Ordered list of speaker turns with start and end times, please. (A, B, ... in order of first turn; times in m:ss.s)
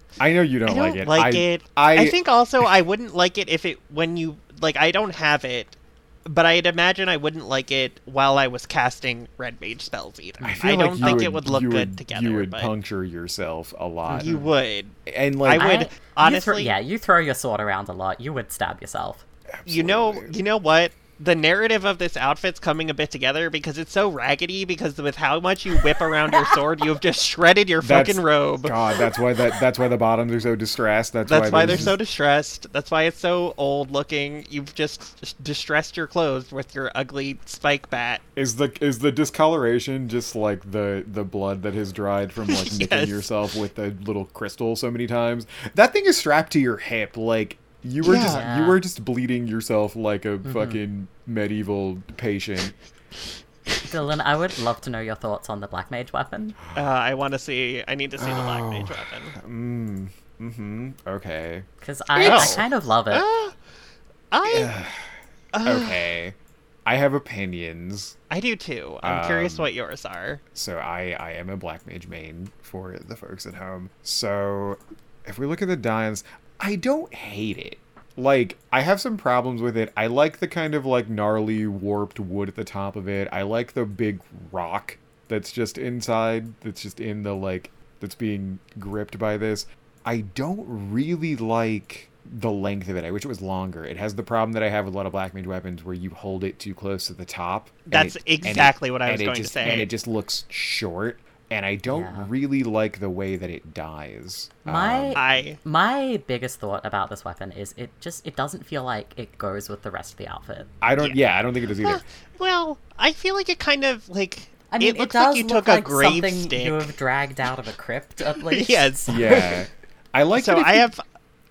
0:00.2-0:02.7 A
0:00.6-0:12.7 B
0:10.4-0:11.2 C
0:10.4-0:14.4 A
0:14.1-0:14.5 C
0:14.2-0:16.7 B
0:15.1-0:15.7 A
0:15.6-0:19.2 C
0:19.5-0:20.3 A
0:19.7-0:28.8 B
0:25.7-0:26.6 C
0:27.8-0:32.0 A
0:31.3-0:38.2 B
0:31.6-0:32.0 C
0:38.4-0:52.7 A
0:42.5-0:43.3 B
0:48.0-0:48.4 B
0:48.2-0:48.8 C
0:50.4-0:50.8 C
0:53.9-0:56.6 C
0:56.7-0:59.4 B
0:58.2-1:02.6 A
1:01.8-1:03.2 C
1:02.2-1:03.5 B
1:04.3-1:04.7 B
1:04.4-1:05.1 A
1:05.5-1:06.0 B
1:05.6-1:08.2 A
1:08.3-1:10.4 B
1:09.0-1:09.7 A
1:10.5-1:45.2 A
1:37.9-1:39.9 B
1:41.9-1:42.3 C
1:44.6-1:50.7 C
1:45.1-1:45.6 B
1:50.8-1:52.0 A
1:51.7-1:57.0 B
1:54.7-1:59.5 C
1:58.3-1:59.6 B
1:59.1-2:00.9 A
2:00.4-2:01.0 B